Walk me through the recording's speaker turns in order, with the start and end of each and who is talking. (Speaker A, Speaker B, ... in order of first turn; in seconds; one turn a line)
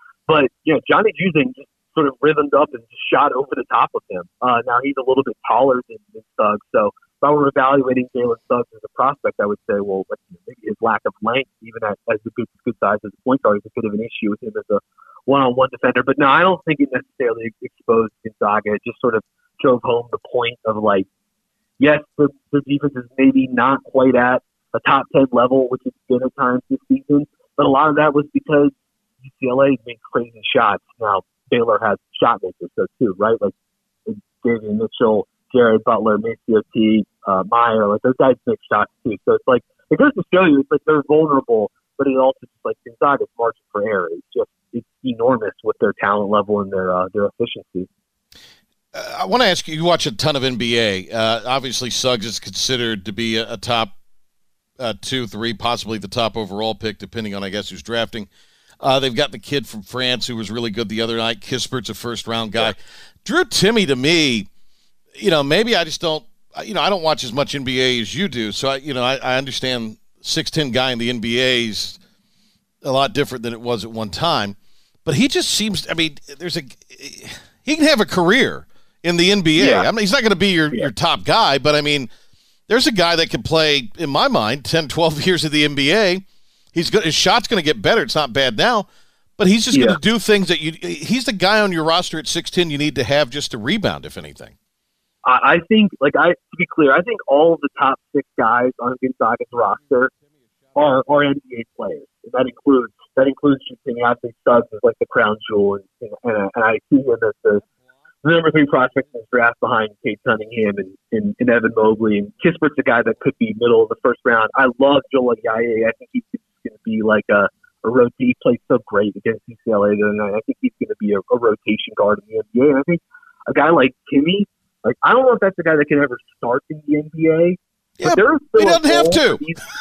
Speaker A: 0.3-21.1
Speaker A: 21.8-28.7
Speaker A: 29.3-33.5
Speaker A: 34.1-47.9
Speaker B: 48.9-53.9
Speaker B: 54.8-58.3
Speaker B: 58.8-64.5
Speaker B: 65.2-72.0
Speaker B: 72.8-82.1
Speaker A: 79.6-79.9
Speaker B: 82.7-86.2
Speaker B: 86.8-88.9
Speaker B: 89.4-94.5
Speaker A: 89.7-90.0
Speaker A: 95.2-100.1
Speaker A: 100.8-107.6
Speaker A: 108.2-129.6
Speaker B: 128.0-129.4